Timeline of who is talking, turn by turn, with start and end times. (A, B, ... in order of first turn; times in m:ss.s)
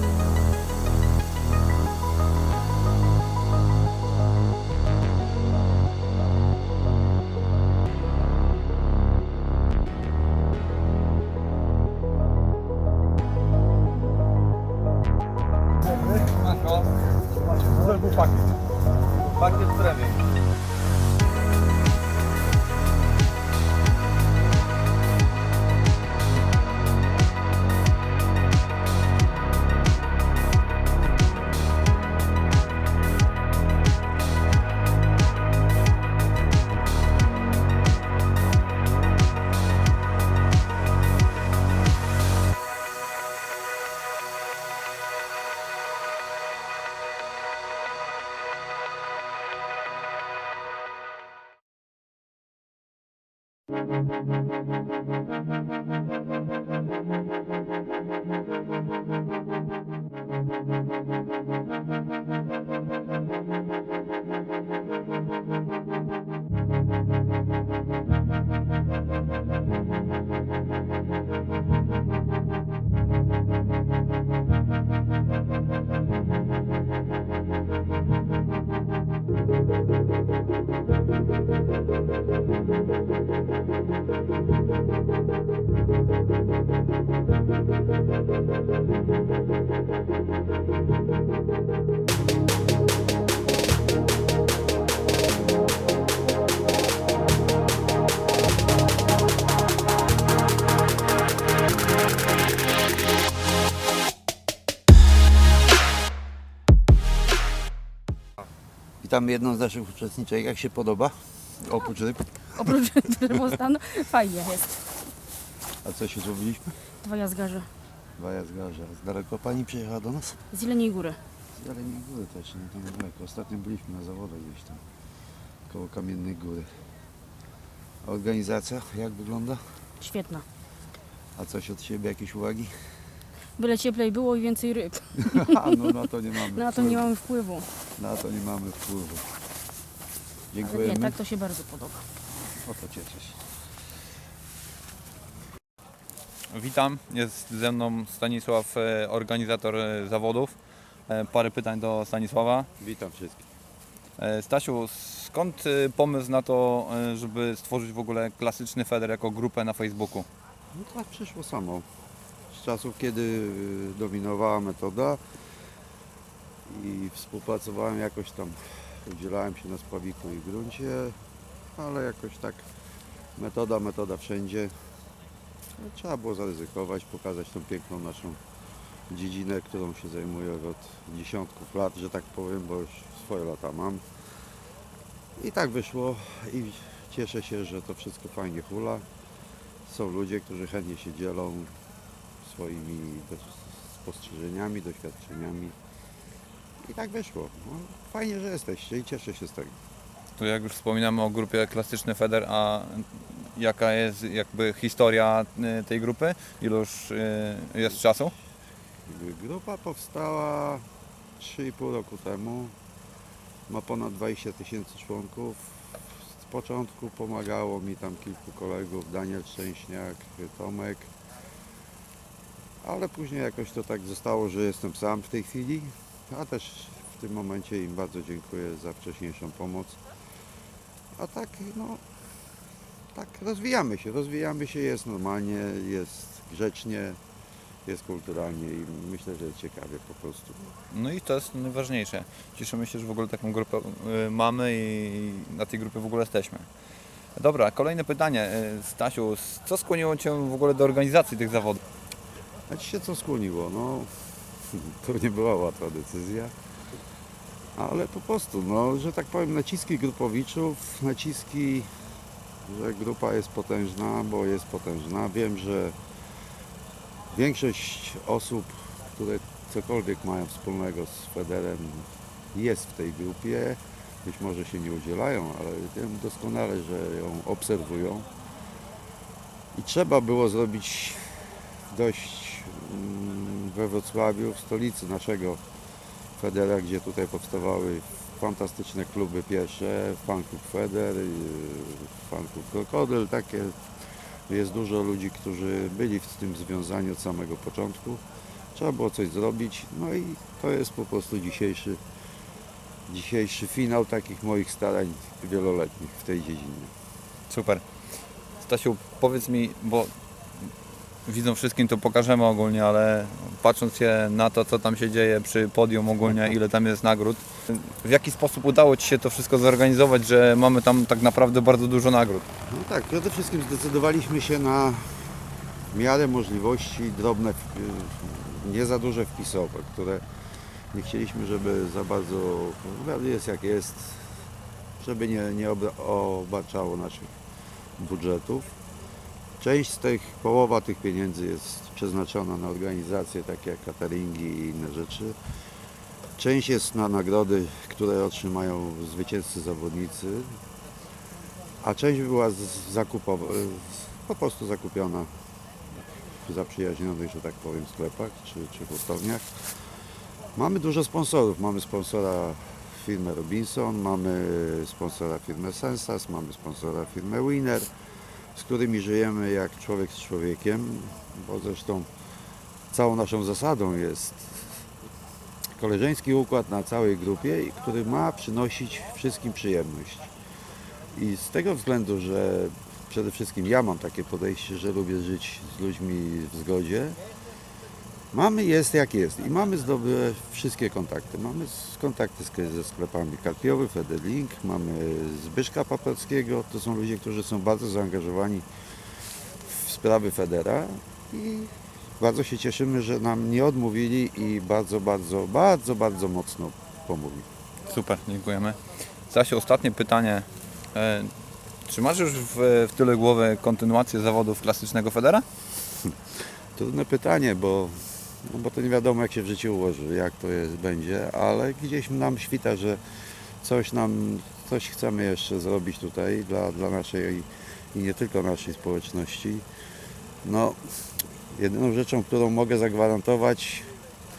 0:19.5-0:20.0 A
1:49.0-1:52.7 B
1:52.6-1:54.9 C
1:55.8-1:56.8 B
1:57.0-1:57.7 C
1:58.2-2:00.4 B
2:00.5-2:01.2 C
2:01.6-2:04.8 B
2:05.7-2:06.7 B
2:08.0-2:09.6 B
2:10.0-2:10.4 C
2:11.4-2:12.7 B
2:13.6-2:15.8 C
2:15.2-2:17.1 B
2:16.5-2:17.7 C
2:18.0-2:19.3 B
2:20.5-2:21.2 B
2:20.6-2:22.0 C
2:22.6-2:23.4 B
2:26.5-2:30.5 A
2:31.1-2:32.7 A
2:32.8-2:33.4 B
2:34.2-2:40.3 A
2:40.7-2:41.9 B
2:42.5-2:45.2 B
2:46.7-2:51.2 B
2:51.8-2:52.6 B
2:53.4-2:54.7 B
2:55.8-2:58.4 B
2:59.1-3:04.0 B
3:05.4-3:09.1 B
3:09.9-3:11.7 B
3:12.4-3:15.8 B
3:16.8-3:19.8 B
3:20.4-3:28.3 A
3:29.1-3:30.8 B
3:31.4-3:32.7 B
3:33.7-3:41.1 B
3:42.8-3:50.0 B
3:51.2-3:52.0 B
3:53.2-3:57.2 B
3:57.9-4:00.8 B
4:00.9-4:06.7 A
4:07.4-4:11.8 A
4:12.7-4:16.5 B
4:17.8-4:21.9 B
4:22.6-4:26.0 B
4:27.3-4:38.3 B
4:39.7-4:45.6 B
4:46.4-4:58.2 B
4:58.8-5:02.0 B
5:03.1-5:06.9 B
5:07.5-5:07.8 A
5:08.6-5:10.7 A
5:11.3-5:22.5 A
5:22.7-5:25.3 B
5:25.9-5:30.2 B
5:30.9-5:34.3 B
5:35.0-5:37.4 B
5:38.0-5:38.8 B
5:39.6-5:45.4 B
5:46.4-5:50.6 B
5:51.8-5:55.3 B
5:56.3-5:59.8 B
6:00.6-6:07.9 B
6:08.5-6:12.1 B
6:12.9-6:14.8 B
6:15.8-6:20.3 B
6:21.1-6:27.2 B
6:28.3-6:38.7 B
6:39.6-6:47.5 B
6:47.9-6:48.8 A
6:49.3-6:51.3 A
6:51.9-6:55.4 A
6:56.8-7:03.0 B
7:03.6-7:09.7 B
7:10.4-7:10.8 B
7:11.5-7:13.9 B